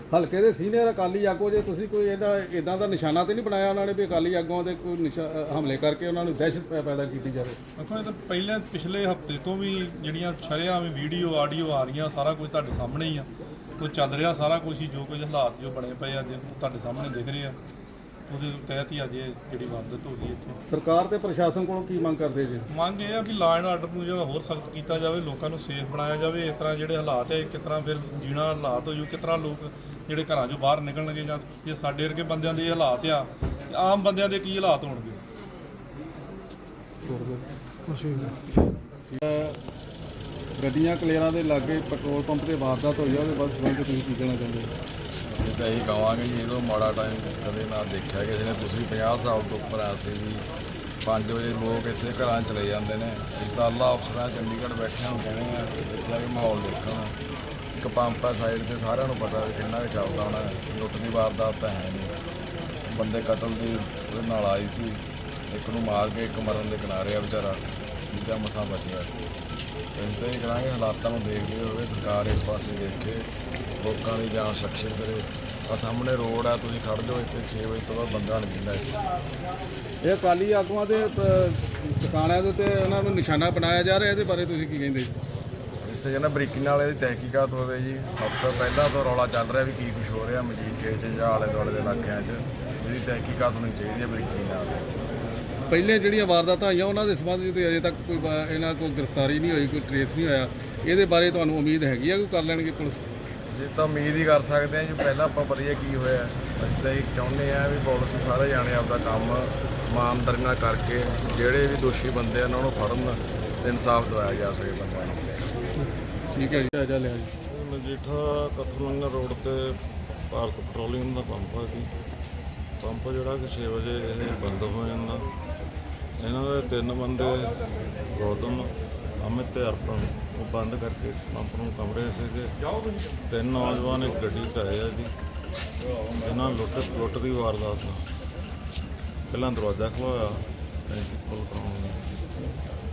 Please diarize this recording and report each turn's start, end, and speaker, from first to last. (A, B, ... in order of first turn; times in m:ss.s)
0:00.1-0:07.6 A
0:07.8-0:13.3 B
0:13.8-0:17.6 B
0:18.3-0:20.6 B
0:20.7-0:22.7 A
0:22.7-0:35.2 B
0:37.0-0:38.4 A
0:39.1-0:39.6 A
0:40.6-0:44.7 A
0:45.4-0:50.4 C
0:51.0-0:57.2 C
0:57.7-1:02.1 C
1:02.8-1:09.1 C
1:10.0-1:13.2 C
1:13.8-1:18.9 C
1:20.0-1:25.1 A
1:25.8-1:34.9 C
1:35.7-1:43.0 A
1:43.5-1:55.4 C
1:56.3-1:57.3 A
1:57.4-2:01.9 D
2:02.8-2:05.2 D
2:06.2-2:07.5 D
2:08.1-2:12.5 D
2:13.3-2:15.1 D
2:16.2-2:18.1 D
2:19.3-2:22.2 D